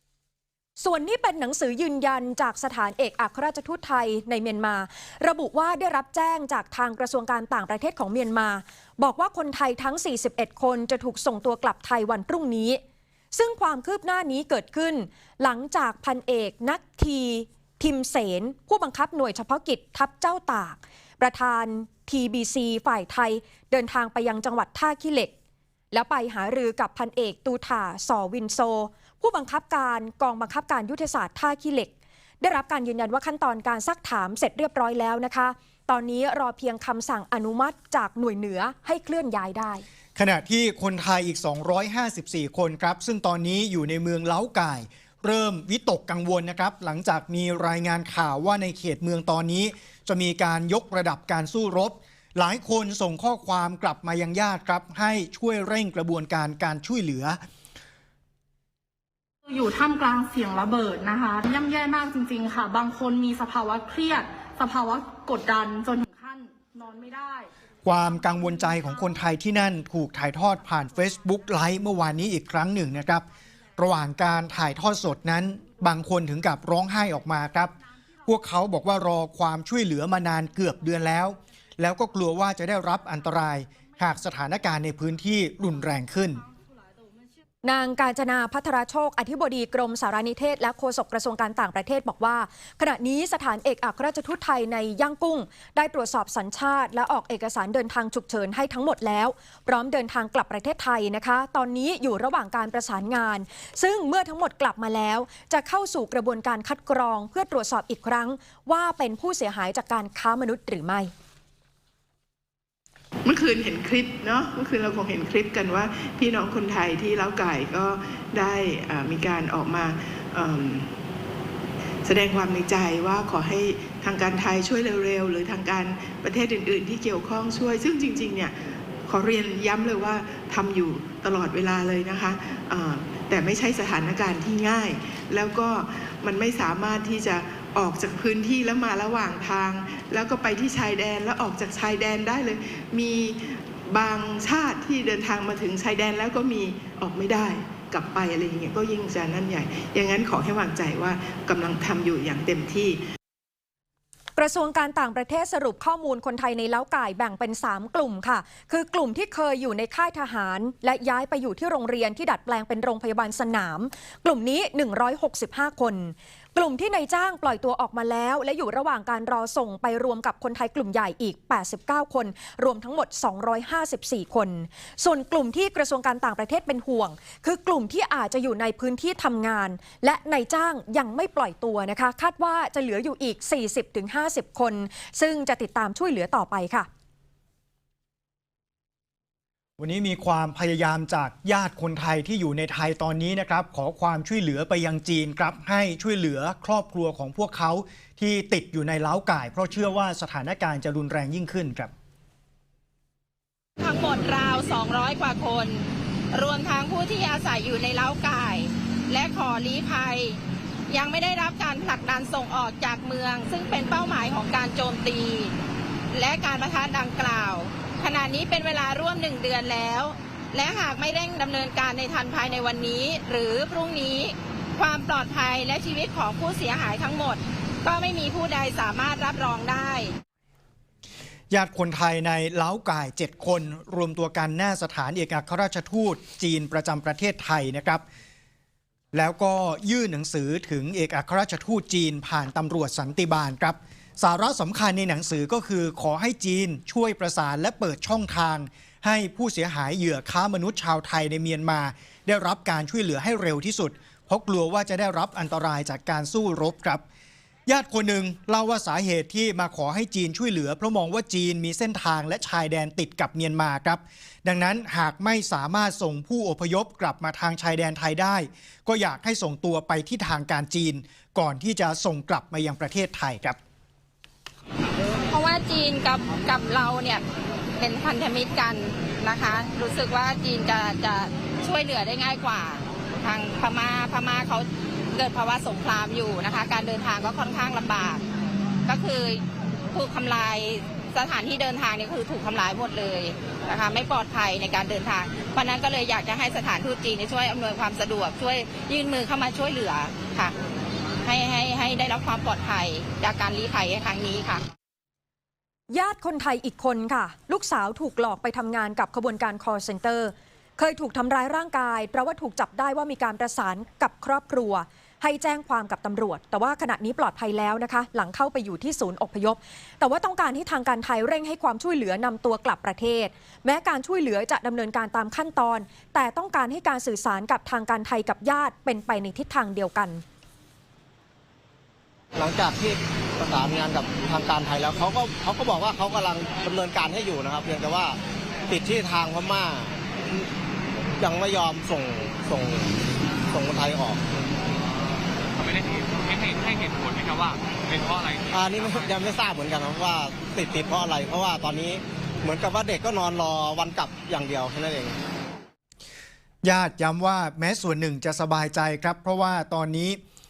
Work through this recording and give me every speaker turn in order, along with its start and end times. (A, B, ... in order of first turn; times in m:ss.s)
0:00.8-0:12.8 A
0:13.3-0:25.3 A
0:25.9-0:39.8 A
0:40.2-0:57.4 B
0:59.5-1:07.5 C
1:07.8-1:13.3 B
1:13.8-1:17.7 B
1:18.3-1:26.4 B
1:27.6-1:51.1 A
1:53.2-2:00.9 D
2:02.0-2:33.0 D
2:34.4-3:06.9 A
3:09.8-3:21.9 B
3:23.8-3:30.4 E
3:30.9-3:35.5 E
3:36.1-3:50.2 E
3:51.5-3:58.0 B
3:59.1-4:17.0 B
4:17.7-4:33.6 B
4:35.3-4:37.2 E
4:37.8-4:48.2 E
4:48.9-4:49.4 E
4:49.9-5:00.6 E
5:01.2-5:04.6 E
5:05.9-5:30.2 A
5:32.4-5:40.5 F
5:41.2-5:43.0 F
5:43.5-5:44.4 F
5:45.6-5:49.1 G
5:48.5-5:55.2 F
5:56.6-6:00.2 B